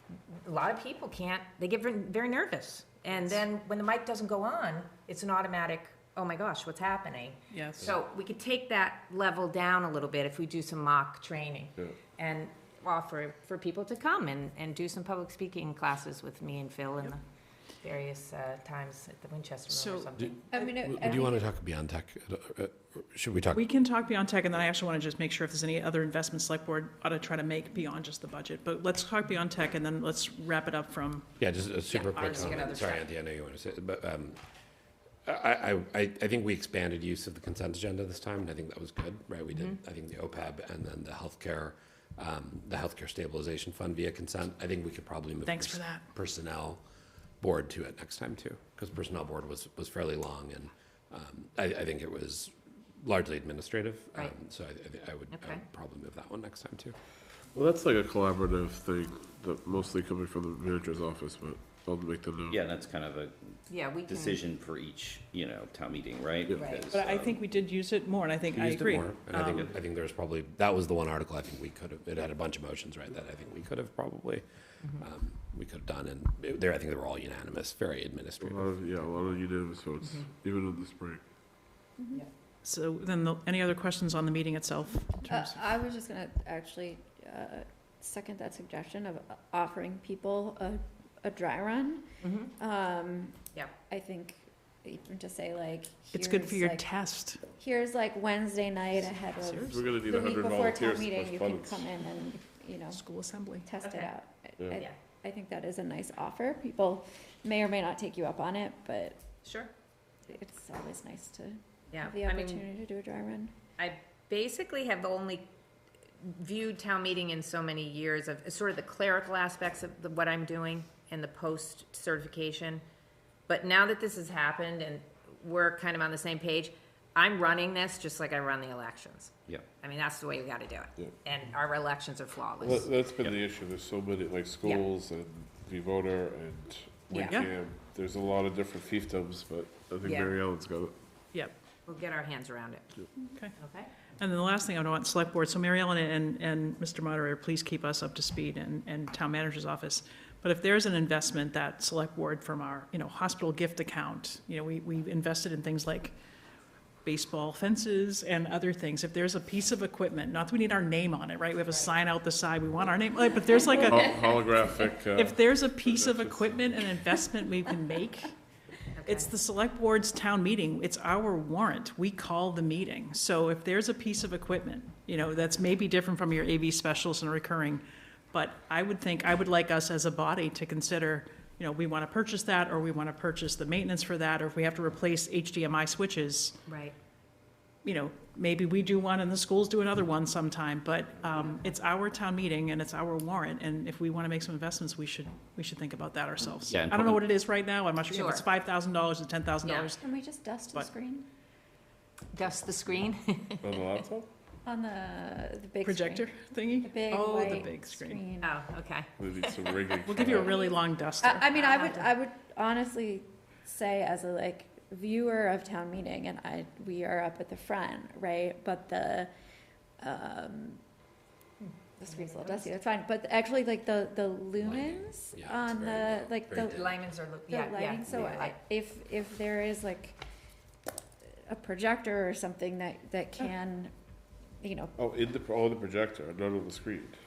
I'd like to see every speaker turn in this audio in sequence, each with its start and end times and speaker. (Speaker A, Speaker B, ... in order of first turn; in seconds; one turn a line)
Speaker A: 0.3-17.2
Speaker B: 7.5-7.9
Speaker A: 17.8-20.7
Speaker B: 19.7-20.1
Speaker C: 20.2-23.6
Speaker D: 20.5-21.4
Speaker B: 23.5-31.3
Speaker C: 31.4-34.4
Speaker A: 31.9-33.1
Speaker C: 35.2-46.8
Speaker B: 45.4-46.0
Speaker C: 47.4-57.0
Speaker A: 55.3-55.6
Speaker E: 57.5-62.6
Speaker F: 62.5-67.4
Speaker A: 63.7-64.4
Speaker E: 66.5-66.8
Speaker A: 66.6-66.9
Speaker B: 66.9-69.7
Speaker C: 68.5-74.4
Speaker C: 74.9-78.7
Speaker E: 78.4-81.2
Speaker D: 82.0-82.2
Speaker B: 82.6-85.7
Speaker D: 85.3-96.9
Speaker A: 92.2-92.5
Speaker B: 96.1-97.4
Speaker D: 97.5-103.0
Speaker B: 99.3-99.8
Speaker E: 99.7-101.9
Speaker B: 102.9-103.7
Speaker D: 103.6-109.2
Speaker A: 103.8-104.1
Speaker A: 109.4-109.7
Speaker D: 110.3-113.5
Speaker A: 111.9-112.6
Speaker A: 113.8-115.5
Speaker A: 116.2-122.8
Speaker A: 123.5-132.9
Speaker E: 132.6-140.9
Speaker A: 137.1-137.4
Speaker B: 137.2-137.5
Speaker A: 140.0-140.3
Speaker A: 141.9-142.9
Speaker A: 143.6-143.9
Speaker B: 144.2-156.1
Speaker B: 157.0-164.1
Speaker E: 163.8-167.0
Speaker B: 164.8-168.3
Speaker A: 168.9-169.3
Speaker B: 169.1-186.6
Speaker A: 186.7-187.0
Speaker B: 187.8-200.1
Speaker F: 196.7-197.2
Speaker A: 198.0-198.4
Speaker A: 199.6-199.9
Speaker D: 200.0-201.3
Speaker A: 202.3-203.8
Speaker E: 203.6-204.3
Speaker D: 204.7-206.3
Speaker B: 205.8-208.2
Speaker D: 206.8-208.6
Speaker A: 208.4-209.1
Speaker E: 209.2-210.5
Speaker B: 210.0-211.5
Speaker D: 210.2-219.3
Speaker A: 211.6-212.1
Speaker D: 220.0-220.8
Speaker A: 221.6-222.7
Speaker D: 222.0-226.9
Speaker C: 224.6-227.0
Speaker A: 226.6-228.6
Speaker D: 227.5-230.2
Speaker D: 231.4-233.9
Speaker D: 234.6-234.9
Speaker E: 235.0-237.2